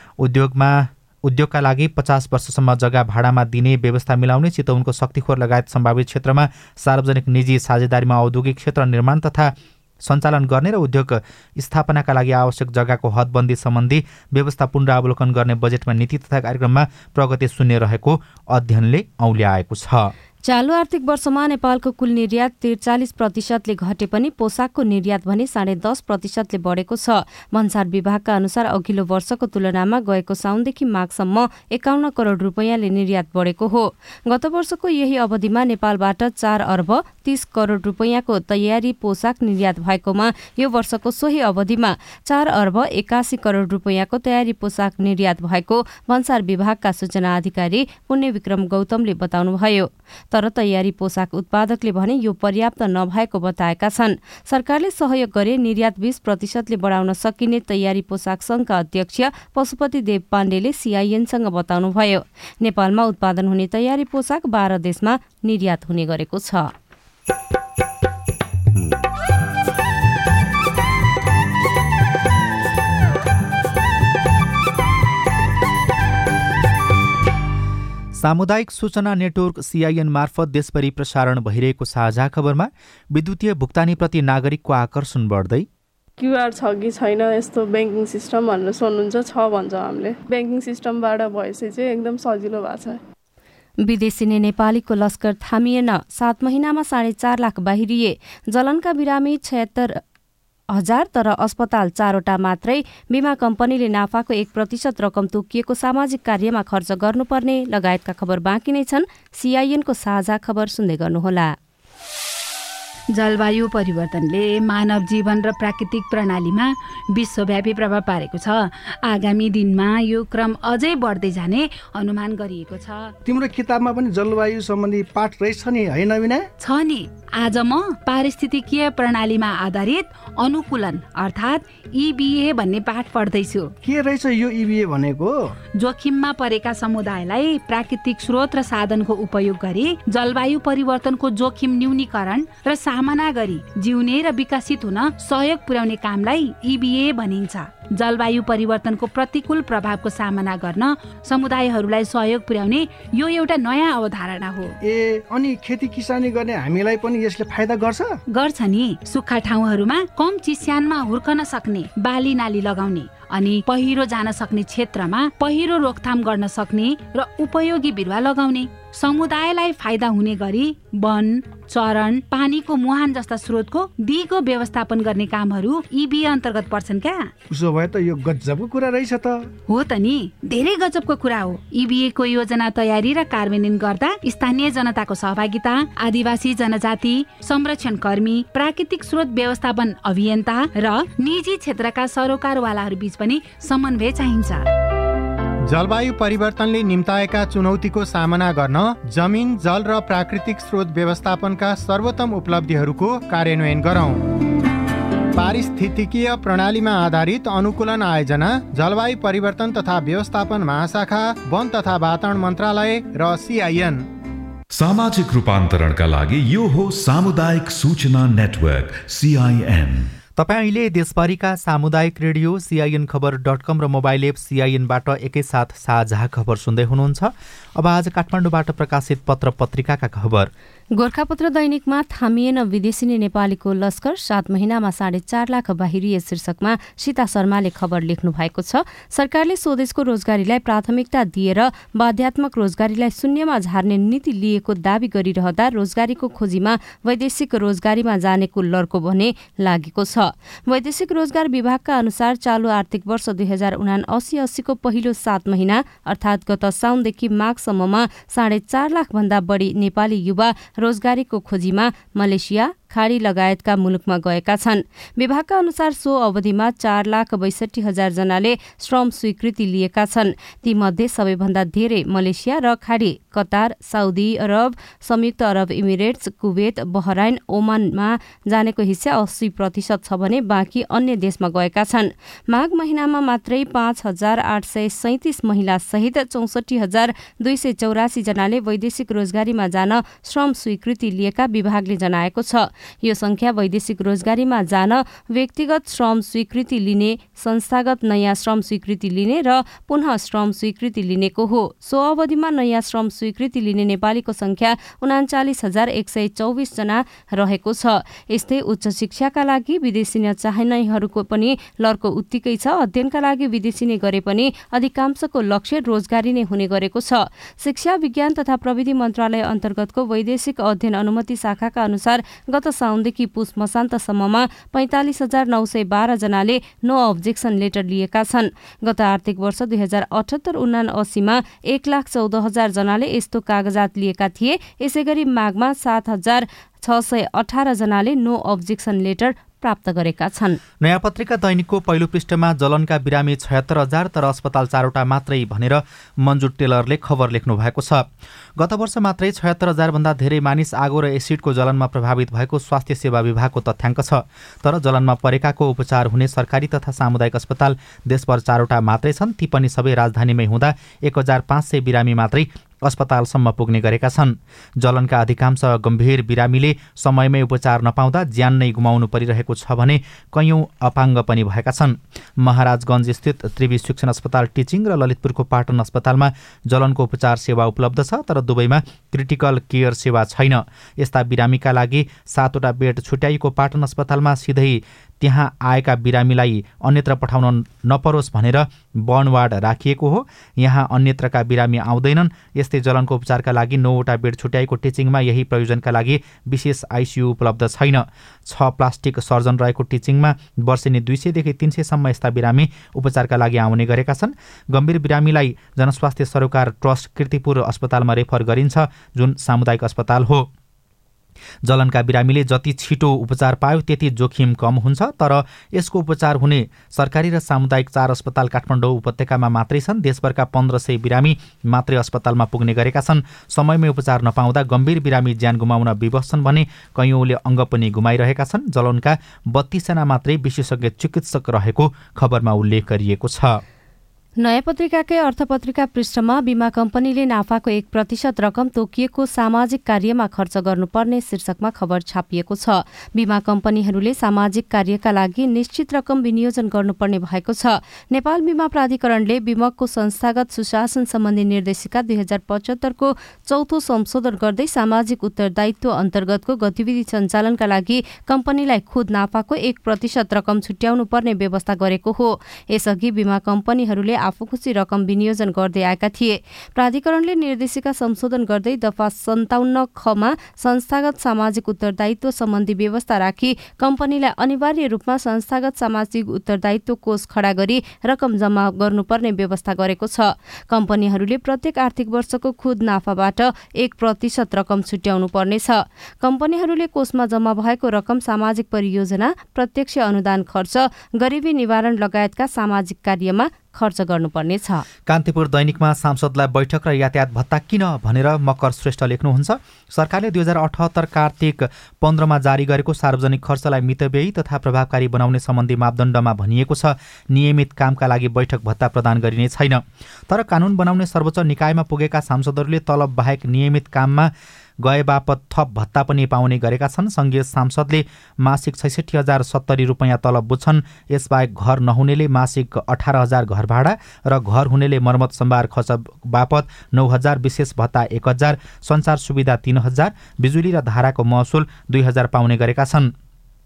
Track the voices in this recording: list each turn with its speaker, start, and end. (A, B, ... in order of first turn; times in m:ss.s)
0:00.2-0:20.1 A
0:20.4-1:06.7 B
1:18.1-1:25.7 A
1:26.2-1:33.0 C
1:33.8-1:40.0 B
1:40.7-1:51.6 B
1:53.1-2:03.1 D
2:03.2-2:06.5 E
2:06.6-2:13.7 D
2:13.8-2:15.5 E
2:15.8-2:34.7 D
2:34.8-2:38.2 E
2:38.3-2:57.3 D
2:57.5-2:59.5 E
2:59.7-3:14.6 D
3:15.7-3:24.3 F
3:25.4-3:34.0 F
3:34.7-3:40.1 G
3:40.4-3:50.5 A
3:51.0-5:40.6 B
5:40.8-6:50.5 A
6:51.6-7:13.6 A
7:14.4-8:14.8 B
8:15.0-8:53.1 A